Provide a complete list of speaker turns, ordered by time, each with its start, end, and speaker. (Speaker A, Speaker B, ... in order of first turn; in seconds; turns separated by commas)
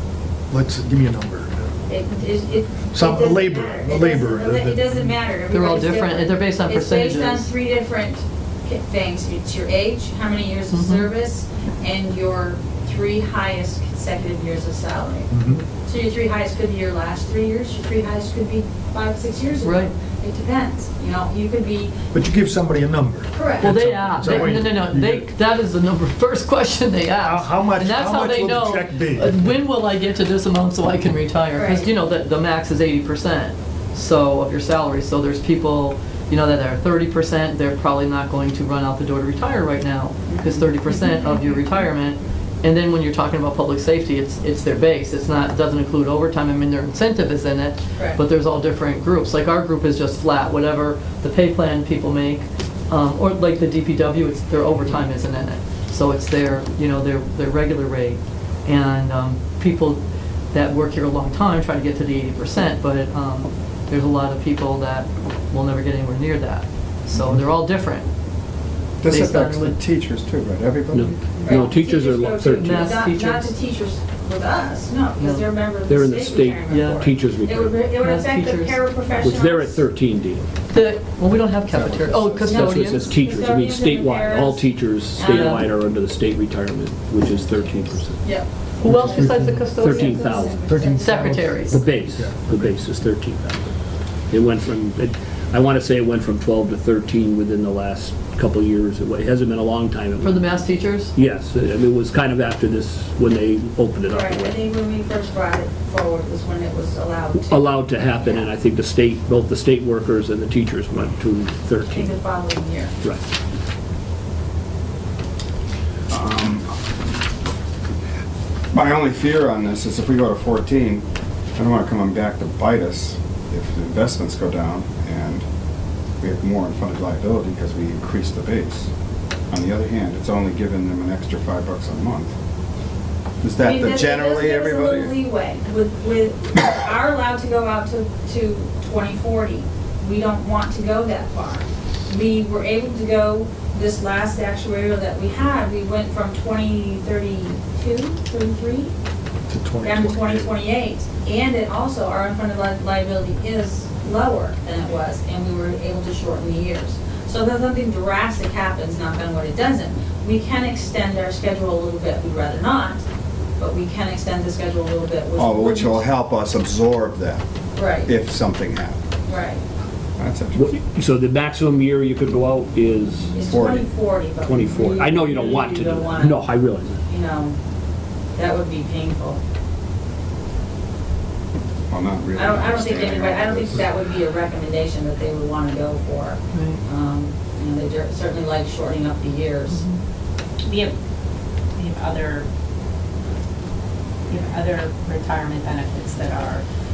Speaker A: 0.5-1.8, Speaker B: 1.9-21.9, Speaker A: 2.9-5.0, Speaker C: 5.5-7.5, Speaker C: 10.7-11.1, Speaker A: 15.3-15.7, Speaker C: 19.6-19.9, Speaker A: 22.1-25.3, Speaker B: 23.3-23.7, Speaker C: 23.6-68.1, Speaker A: 27.2-29.5, Speaker B: 31.5-31.9, Speaker B: 40.3-41.5, Speaker A: 67.1-67.4, Speaker D: 69.0-71.6, Speaker C: 69.0-69.8, Speaker E: 70.9-72.9, Speaker B: 71.3-79.9, Speaker C: 72.5-73.5, Speaker C: 75.2-75.5, Speaker E: 75.8-77.8, Speaker C: 76.7-77.0, Speaker C: 78.0-78.8, Speaker E: 79.2-80.5, Speaker C: 80.7-83.1, Speaker D: 81.7-83.0, Speaker B: 82.4-85.7, Speaker E: 82.6-88.3, Speaker C: 85.3-85.7, Speaker B: 87.2-91.7, Speaker C: 88.8-91.8, Speaker A: 88.8-89.7, Speaker E: 89.6-90.6, Speaker A: 90.6-92.8, Speaker E: 91.7-93.7, Speaker E: 94.3-100.6, Speaker C: 100.2-101.1, Speaker E: 101.1-104.5, Speaker B: 104.0-108.4, Speaker E: 107.3-112.1, Speaker B: 111.9-112.9, Speaker D: 116.1-116.7, Speaker D: 118.7-121.0, Speaker D: 121.5-125.4, Speaker D: 126.2-128.9, Speaker D: 129.5-132.3, Speaker D: 133.4-135.1, Speaker B: 133.6-148.9, Speaker A: 149.5-150.5, Speaker B: 149.8-163.0, Speaker B: 163.6-166.1, Speaker D: 165.3-167.4, Speaker B: 167.7-168.1, Speaker D: 168.0-169.0, Speaker B: 169.3-169.6, Speaker D: 170.2-170.7, Speaker E: 170.5-173.4, Speaker B: 173.3-176.5, Speaker D: 173.4-173.9, Speaker E: 174.4-177.0, Speaker B: 177.1-177.5, Speaker B: 178.3-179.4, Speaker D: 181.9-183.9, Speaker B: 182.3-189.8, Speaker C: 186.5-186.8, Speaker C: 189.7-190.0, Speaker F: 190.6-190.9, Speaker F: 191.7-192.5, Speaker F: 194.3-196.6